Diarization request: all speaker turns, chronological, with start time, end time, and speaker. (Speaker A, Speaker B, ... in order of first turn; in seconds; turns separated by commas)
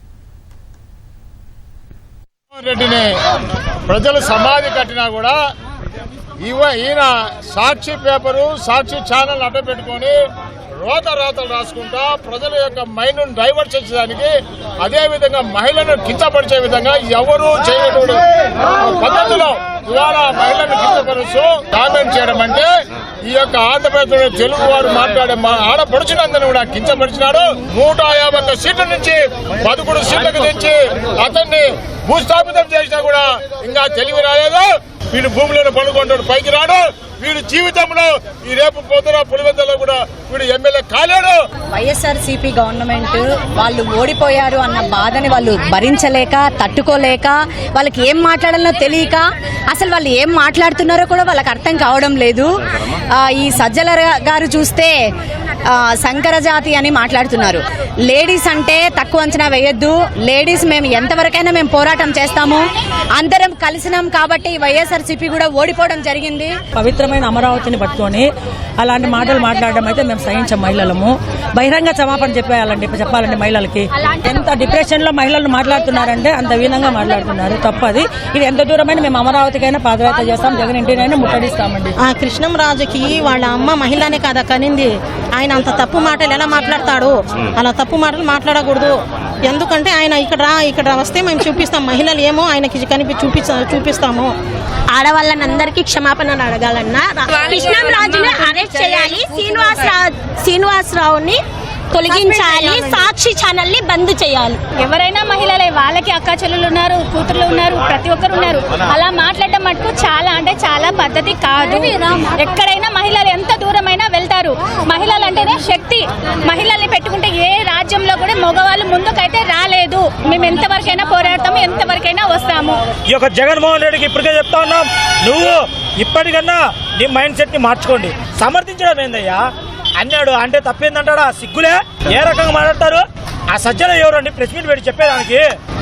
Speaker A: 2.5-3.1, Speaker A: 3.9-5.3, Speaker A: 6.4-10.1, Speaker A: 10.8-18.2, Speaker A: 18.7-22.7, Speaker A: 23.2-41.4, Speaker B: 41.7-52.5, Speaker B: 53.1-54.9, Speaker B: 55.6-62.6, Speaker B: 63.1-66.6, Speaker C: 66.7-68.3, Speaker C: 68.8-81.9, Speaker D: 82.0-94.3, Speaker E: 94.9-96.1, Speaker D: 95.9-99.0, Speaker E: 97.3-101.4, Speaker E: 101.9-104.6, Speaker D: 102.1-103.1, Speaker F: 104.8-122.8, Speaker G: 123.1-129.4, Speaker G: 130.0-135.4